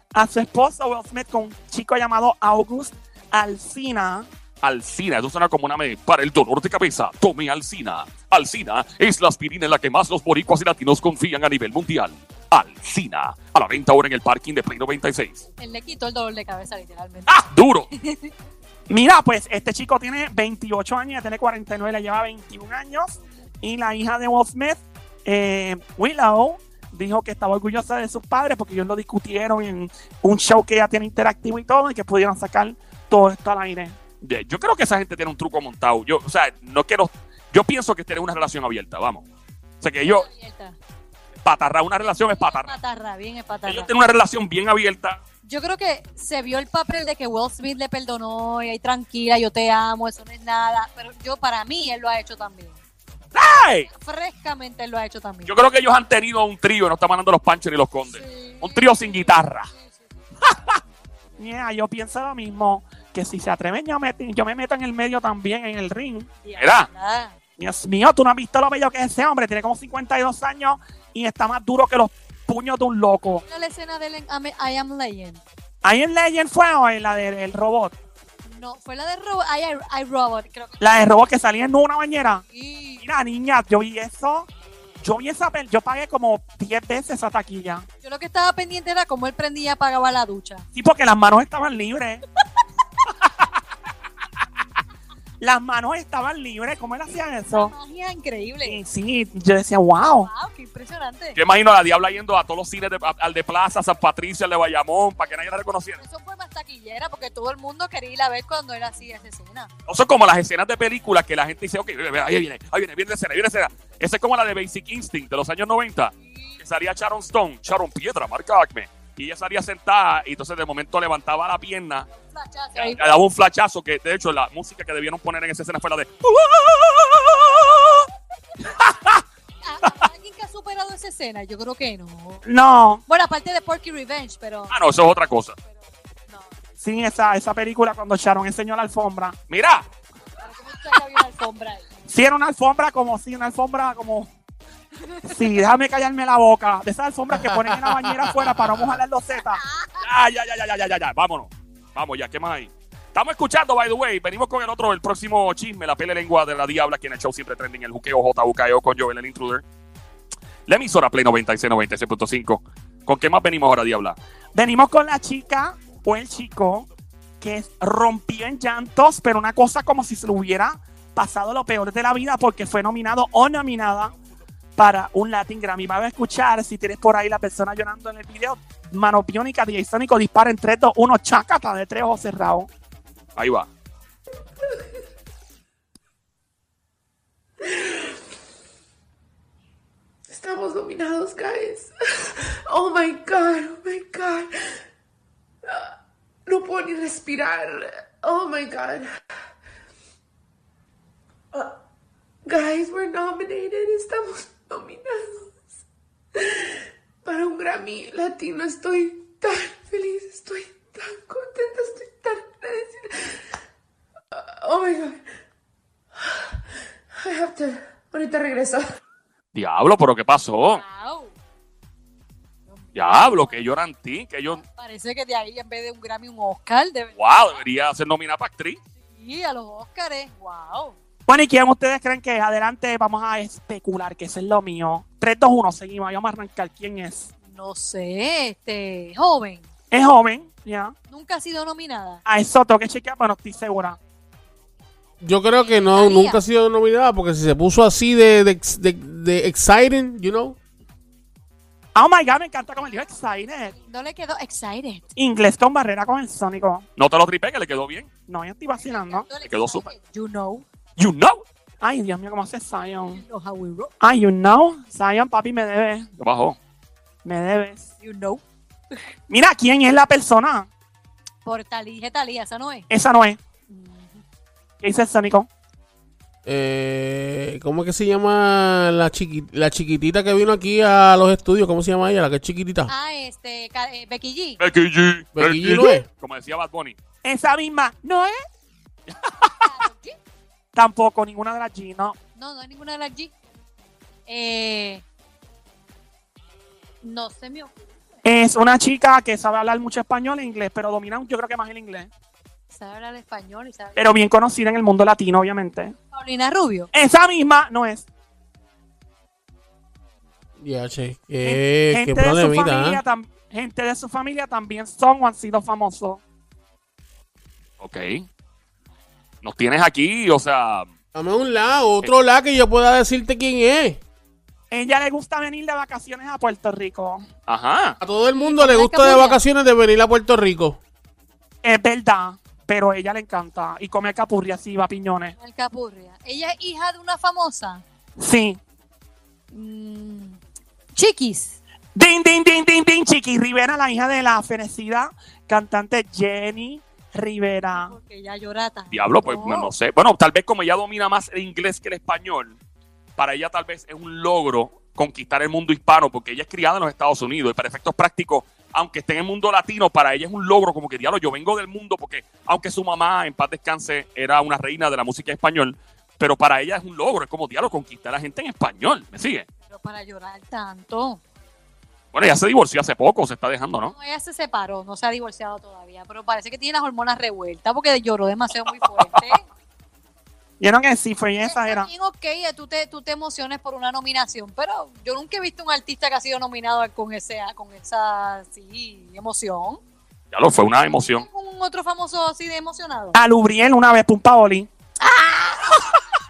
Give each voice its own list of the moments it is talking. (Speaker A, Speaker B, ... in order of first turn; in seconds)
Speaker A: 0.1-4.3, 18.9-34.0, 61.4-66.3, 67.6-73.4, 75.8-78.0, 80.8-82.4, 83.0-84.5, 85.0-87.9, 90.7-92.2, 95.4-97.7, 98.7-100.3, 132.4-133.0, 136.8-139.4, 142.1-144.3, 145.3-149.6, 164.6-166.9, 167.4-174.1, 174.8-182.7, 231.3-237.3, 239.9-240.9, 242.2-244.0, 251.9-253.8, 255.2-256.9, 258.3-259.3, 261.8-263.2, 264.0-266.1, 267.2-267.9, 269.3-270.7, 272.9-273.4, 274.8-275.5, 287.2-288.4, 290.7-292.2, 298.2-302.1, 304.0-305.9, 306.9-308.1, 311.4-316.2, 324.7-327.2, 331.6-335.4, 338.2-338.6, 341.9-347.9, 380.6-381.9, 393.1-395.9
Speaker B: 4.6-15.5, 17.3-17.9, 34.2-39.3, 39.8-40.3, 41.4-42.8, 43.7-45.2, 53.3-53.9, 55.5-59.7, 66.5-66.9, 101.4-106.0, 109.9-122.1, 122.8-128.1, 134.7-135.6, 139.5-139.8, 148.2-148.7, 150.0-159.6, 160.7-164.2, 183.4-183.7, 219.5-220.8, 222.9-224.6, 227.2-228.8, 257.0-258.1, 259.4-259.9, 261.0-261.4, 266.2-266.6, 284.6-287.0, 289.1-289.5, 317.8-318.3, 319.4-320.9, 327.5-328.0, 348.9-352.6, 353.2-369.5, 372.1-373.9, 390.3-391.2
Speaker C: 15.6-17.4, 18.0-18.3, 40.0-40.8, 42.2-43.9, 45.5-52.8, 53.9-55.5, 58.1-60.1, 66.4-67.3, 73.5-75.4, 78.5-80.9, 82.5-83.0, 88.0-90.7, 97.5-98.8, 100.0-101.4, 106.0-109.7, 116.2-116.6, 122.2-123.0, 129.6-132.4, 133.1-134.8, 140.4-141.8, 145.0-145.3, 149.6-150.0, 220.7-221.3, 222.7-223.6, 224.6-227.1, 229.1-231.0, 237.5-239.7, 241.1-242.2, 245.5-246.4, 253.7-255.1, 258.8-260.6, 263.1-263.9, 268.0-268.4, 271.4-272.9, 273.7-274.2, 282.9-284.6, 289.4-290.2, 292.4-293.3, 294.3-295.1, 297.0-297.9, 302.7-304.0, 306.1-306.9, 328.3-329.4, 335.4-337.8, 339.5-340.4, 340.9-341.6, 347.7-349.7, 369.7-371.2, 373.9-379.4, 381.4-389.8, 391.2-393.2
Speaker D: 147.3-148.6, 245.2-250.6, 276.4-282.9, 285.4-286.1, 310.6-313.0, 321.1-324.0, 328.0-330.8
Speaker E: 187.6-188.0, 190.3-194.7, 195.7-195.9, 196.5-199.2, 202.5-205.6, 206.4-213.4, 214.4-215.2, 217.2-219.0